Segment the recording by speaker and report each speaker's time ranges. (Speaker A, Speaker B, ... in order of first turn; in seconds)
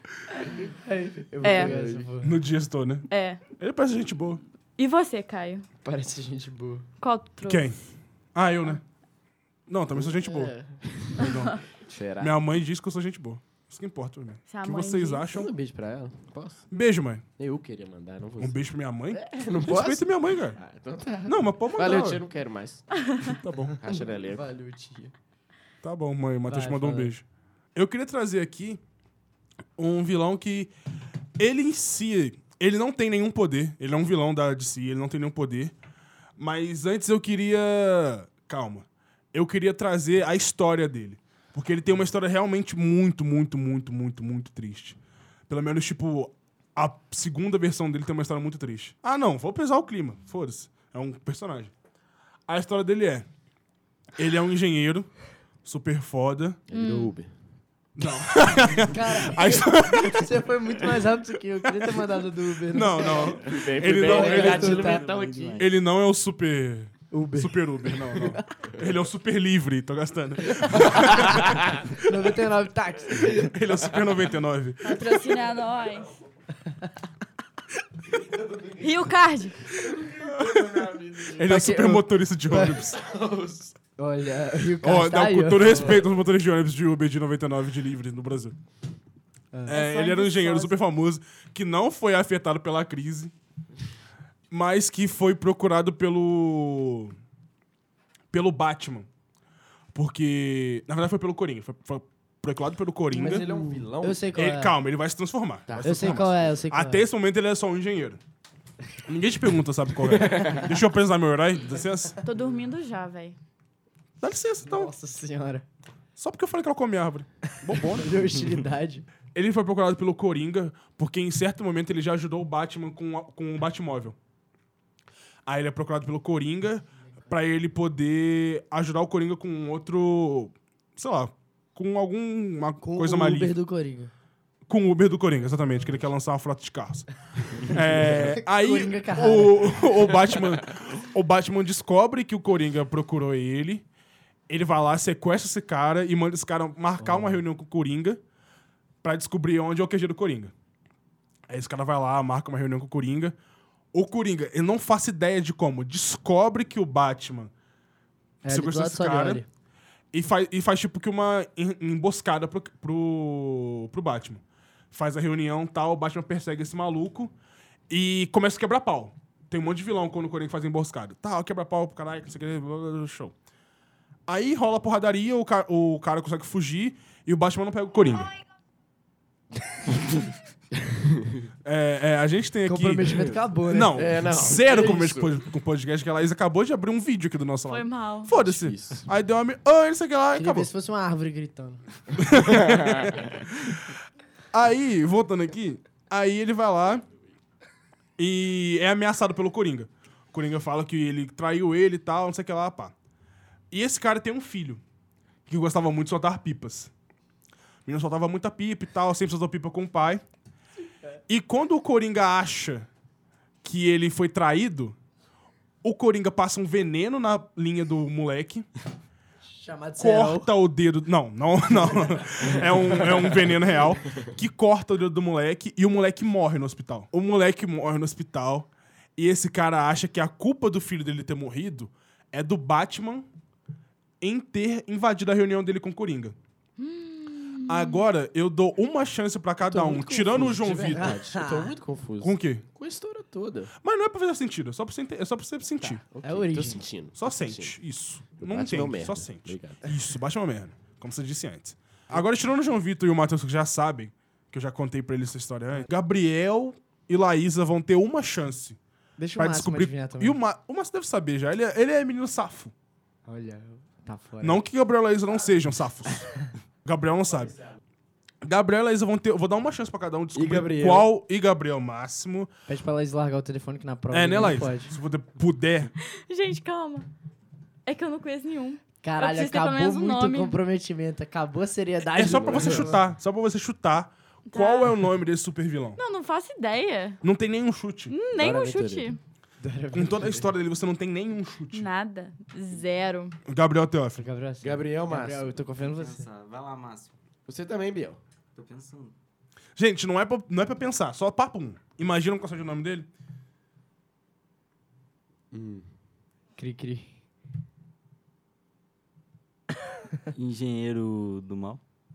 Speaker A: 0.5-2.4, 5.8-6.8, 23.8-25.1, 26.5-27.1, 58.8-65.3, 67.1-68.4, 72.0-73.5, 81.4-82.8, 84.0-86.0, 89.5-89.8, 103.1-104.8, 105.8-107.1, 114.6-115.6, 117.7-119.0, 132.8-134.1, 137.7-140.0, 158.4-159.4, 182.7-184.1, 190.3-191.8, 219.5-220.5, 240.7-241.7, 246.2-246.8, 259.2-260.4, 263.3-264.6, 272.7-274.9, 279.0-282.9, 289.6-290.5, 294.2-296.2, 306.6-307.1
Speaker B: 1.4-1.7, 3.1-3.4, 4.8-5.6, 7.0-7.7, 11.2-11.6, 14.5-15.3, 56.7-57.1, 74.8-76.1, 78.8-79.7, 89.7-90.7, 112.2-113.4, 187.7-188.3, 236.8-238.0, 276.0-277.1, 277.9-280.6, 284.5-284.9, 286.0-287.2, 288.1-289.2, 291.7-293.4
Speaker C: 1.4-2.1, 9.9-12.3, 15.3-16.6, 17.4-18.6, 19.3-23.1, 23.8-24.4, 56.7-57.3, 63.0-65.6, 71.0-71.6, 78.3-78.8, 79.8-81.5, 82.8-83.7, 85.7-86.0, 103.1-104.3, 105.7-106.6, 110.0-110.7, 183.9-185.4, 188.3-189.1, 192.3-193.4, 239.6-243.7, 246.0-247.8, 248.4-249.9, 270.3-271.1, 282.1-282.9, 288.3-289.1, 294.6-295.5, 297.4-298.2, 305.5-305.9
Speaker D: 2.2-4.4, 7.5-7.8, 8.3-8.8, 9.7-10.5, 11.1-11.6, 12.2-15.5, 16.7-17.2, 18.4-20.6, 21.2-22.2, 23.2-23.8, 25.8-27.2, 27.7-28.8, 29.8-30.7, 31.4-35.7, 36.4-51.7, 52.5-53.2, 54.2-56.6, 58.0-60.4, 62.7-65.0, 65.5-71.6, 73.3-75.2, 80.2-83.0, 84.8-88.5, 89.7-93.3, 94.5-97.1, 98.3-99.1, 99.9-103.5, 104.3-108.2, 109.0-112.2, 114.2-114.9, 116.2-118.4, 119.3-124.2, 125.5-133.6, 134.7-143.8, 144.5-148.2, 149.0-150.5, 151.5-153.3, 153.9-157.5, 158.5-159.4, 160.1-167.3, 167.9-173.3, 174.3-178.3, 181.6-190.7, 192.2-193.9, 194.5-197.0, 198.2-202.9, 203.7-204.8, 205.5-206.9, 207.8-210.2, 211.3-212.9, 213.6-214.9, 215.8-218.7, 220.0-233.3, 234.2-236.3, 237.7-241.2, 242.2-242.6, 243.8-246.0, 247.2-258.8, 259.4-262.7, 264.4-267.5, 268.4-272.5, 274.1-275.9, 282.1-286.0, 287.2-288.1, 289.9-291.9, 293.4-294.2, 299.8-303.1
Speaker E: 64.3-65.7, 295.8-297.1, 298.5-299.1, 310.3-311.8